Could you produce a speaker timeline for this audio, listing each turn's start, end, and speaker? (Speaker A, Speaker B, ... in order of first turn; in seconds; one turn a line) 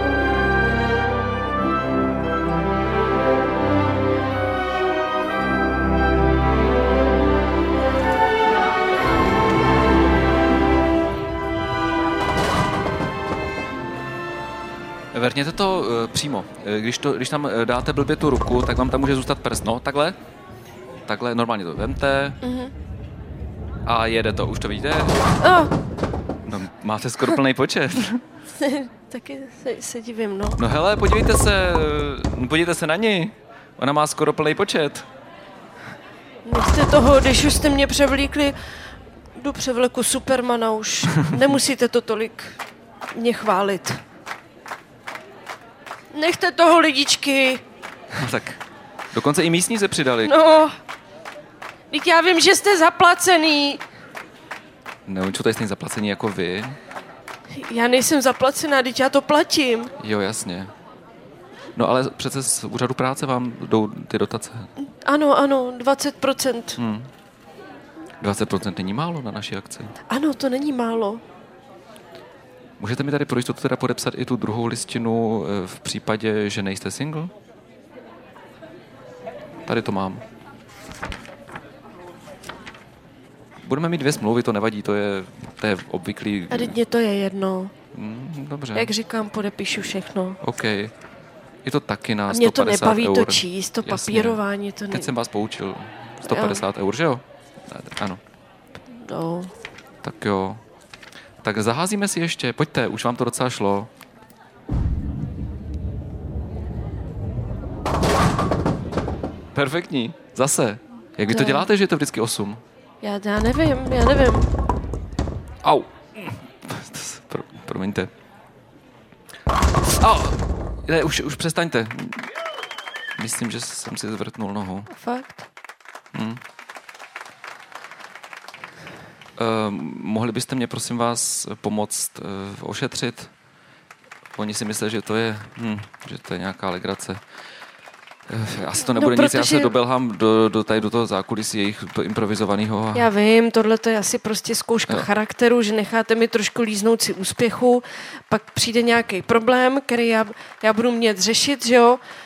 Speaker A: 15.1-20.2
Speaker A: 21.1-22.4
Speaker B: 22.4-22.7
Speaker A: 23.9-25.2
Speaker B: 25.4-25.7
Speaker A: 26.4-28.2
Speaker B: 28.6-30.6
Speaker A: 30.6-35.1
Speaker B: 36.5-42.6
Speaker B: 43.1-44.0
Speaker B: 46.1-47.6
Speaker A: 48.1-48.6
Speaker A: 49.1-50.3
Speaker B: 50.2-50.8
Speaker B: 51.9-53.8
Speaker A: 55.0-56.8
Speaker B: 57.5-59.9
Speaker A: 60.0-60.7
Speaker A: 61.8-64.7
Speaker B: 64.8-66.8
Speaker A: 66.8-67.1
Speaker A: 68.2-70.0
Speaker B: 70.1-71.2
Speaker A: 72.8-77.3
Speaker A: 79.6-80.2
Speaker A: 83.6-86.8
Speaker B: 86.5-87.7
Speaker A: 87.9-88.9
Speaker B: 88.8-90.4
Speaker A: 90.4-90.9
Speaker A: 91.6-98.2
Speaker B: 92.3-95.1
Speaker B: 96.2-96.6
Speaker B: 98.9-99.5
Speaker A: 100.0-100.6
Speaker A: 101.4-103.9
Speaker A: 109.5-112.6
Speaker B: 111.3-111.7
Speaker B: 113.0-114.5
Speaker A: 115.6-118.1
Speaker A: 119.9-122.3
Speaker A: 123.2-124.9
Speaker B: 124.9-125.5
Speaker A: 126.1-126.4
Speaker A: 129.4-133.3
Speaker A: 134.3-137.5
Speaker A: 138.3-143.1
Speaker B: 138.9-139.7
Speaker B: 142.9-152.0